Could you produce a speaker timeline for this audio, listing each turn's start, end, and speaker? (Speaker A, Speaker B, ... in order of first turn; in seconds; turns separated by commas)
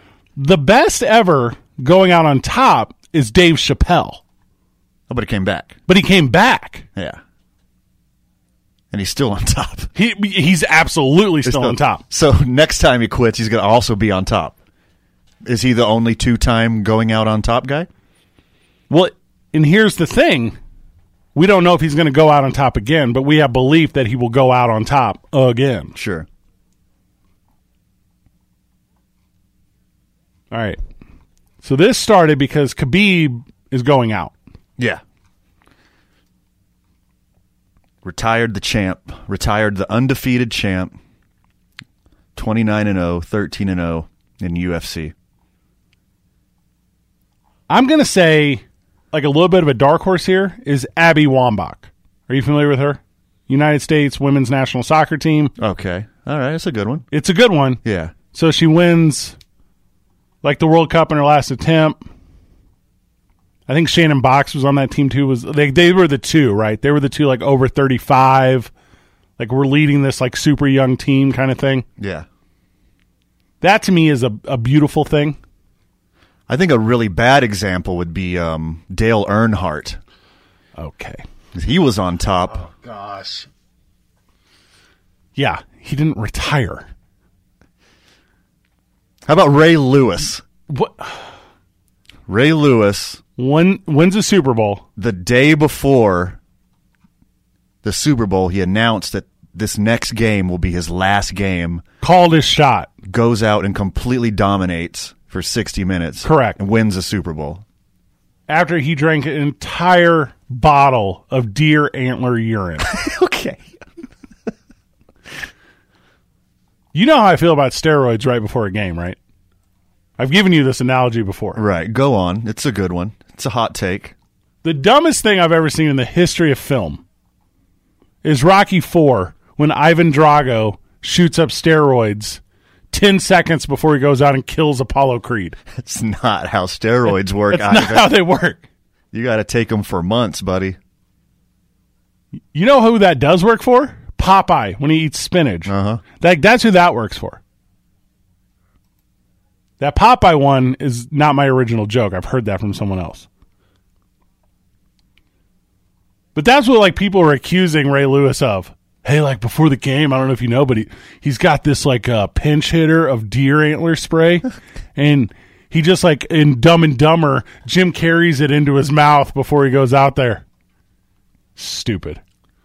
Speaker A: 0.3-4.2, Speaker B: 5.1-5.8, Speaker A: 5.9-6.9, Speaker B: 8.9-9.9, Speaker A: 9.9-12.0, Speaker B: 11.4-14.6, Speaker B: 15.4-17.9, Speaker A: 18.9-20.6, Speaker A: 21.3-25.9, Speaker B: 25.9-26.3, Speaker A: 30.5-30.8, Speaker A: 31.6-34.3, Speaker B: 38.0-41.0, Speaker B: 42.4-45.1, Speaker A: 47.7-55.5, Speaker B: 55.6-57.0, Speaker A: 57.1-57.8, Speaker B: 57.8-58.1, Speaker A: 58.3-59.4, Speaker A: 60.4-62.0, Speaker A: 63.7-68.7, Speaker A: 69.4-71.8, Speaker B: 72.0-72.2, Speaker A: 73.6-75.4, Speaker B: 76.5-80.0, Speaker A: 80.8-81.2, Speaker B: 81.5-82.7, Speaker A: 82.9-83.4, Speaker A: 85.3-86.9, Speaker B: 89.2-90.4, Speaker A: 90.7-91.3, Speaker B: 92.3-93.2, Speaker A: 93.4-94.8, Speaker B: 95.0-96.4, Speaker B: 97.8-101.8, Speaker A: 102.0-102.9, Speaker B: 103.0-107.6, Speaker A: 106.2-106.6, Speaker A: 108.5-112.9, Speaker B: 112.8-113.6, Speaker A: 116.9-119.2, Speaker A: 120.2-121.6, Speaker B: 121.5-124.1, Speaker A: 124.6-127.0, Speaker A: 128.2-132.4, Speaker A: 132.9-135.6, Speaker B: 135.7-138.1, Speaker A: 137.5-138.7, Speaker B: 139.1-140.8, Speaker A: 142.5-147.4, Speaker B: 145.7-146.0, Speaker A: 149.8-153.3, Speaker A: 156.3-170.4, Speaker A: 171.6-172.2